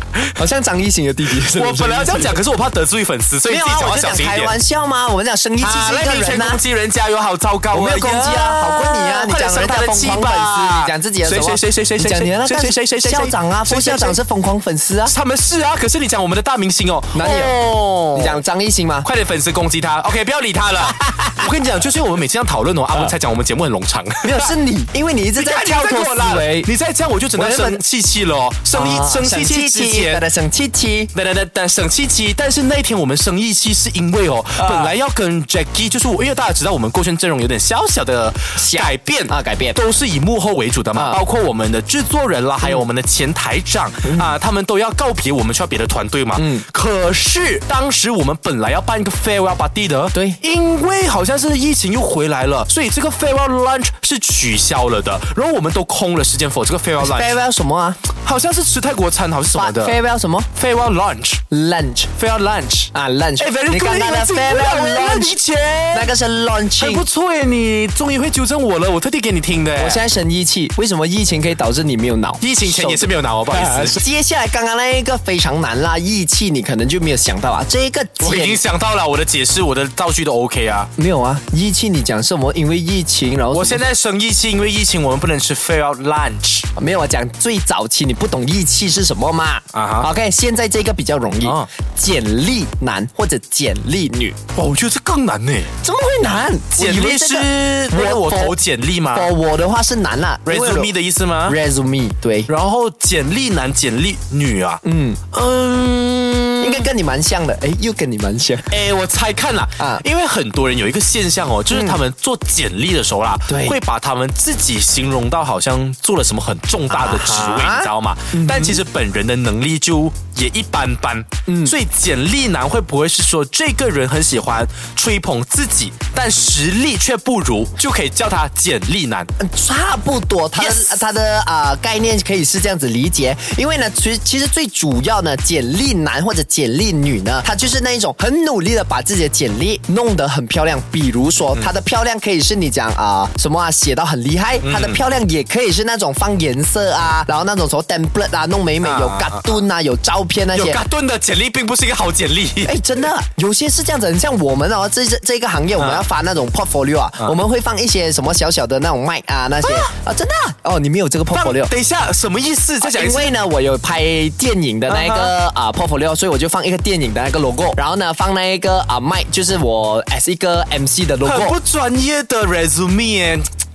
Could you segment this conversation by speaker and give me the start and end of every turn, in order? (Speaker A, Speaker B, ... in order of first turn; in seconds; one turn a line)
Speaker A: 0.3-2.4
Speaker B: 1.3-4.5
Speaker A: 3.5-6.6
Speaker B: 5.6-14.2
Speaker A: 7.7-15.1
Speaker B: 15.1-18.4
Speaker A: 17.1-17.6
Speaker A: 18.1-19.1
Speaker B: 19.0-24.5
Speaker A: 20.9-21.4
Speaker A: 24.2-26.7
Speaker B: 25.4-30.2
Speaker A: 27.3-27.8
Speaker A: 28.7-31.1
Speaker B: 31.1-57.4
Speaker A: 34.6-34.9
Speaker A: 38.5-39.8
Speaker A: 40.9-41.2
Speaker A: 44.0-44.3
Speaker A: 46.4-46.6
Speaker A: 50.1-50.4
Speaker A: 57.0-58.0
Speaker B: 58.1-60.0
Speaker A: 59.5-60.5
Speaker B: 60.5-61.4
Speaker A: 61.5-62.1
Speaker B: 62.1-66.1
Speaker A: 62.9-65.4
Speaker A: 65.9-67.0
Speaker B: 66.8-70.0
Speaker A: 69.8-78.6
Speaker B: 72.4-74.0
Speaker B: 78.2-80.9
Speaker A: 81.0-83.8
Speaker B: 83.5-86.7
Speaker A: 86.7-94.4
Speaker B: 89.7-90.1
Speaker B: 91.4-91.7
Speaker B: 94.5-95.7
Speaker A: 95.8-98.5
Speaker B: 96.8-99.3
Speaker A: 99.1-100.9
Speaker B: 100.5-101.6
Speaker A: 101.4-102.5
Speaker B: 102.5-104.8
Speaker A: 104.8-105.2
Speaker B: 105.3-106.9
Speaker A: 106.6-108.7
Speaker B: 108.7-129.3
Speaker A: 109.8-110.0
Speaker A: 111.7-112.0
Speaker A: 113.5-113.8
Speaker A: 116.9-118.8
Speaker A: 121.5-121.7
Speaker A: 129.4-150.8
Speaker B: 130.5-131.0
Speaker B: 144.6-145.0
Speaker B: 148.8-149.6
Speaker B: 150.5-152.9
Speaker A: 152.6-161.7
Speaker B: 155.8-156.0
Speaker B: 159.6-159.9
Speaker B: 161.3-163.3
Speaker A: 162.8-171.6
Speaker B: 164.9-165.3
Speaker B: 171.2-173.4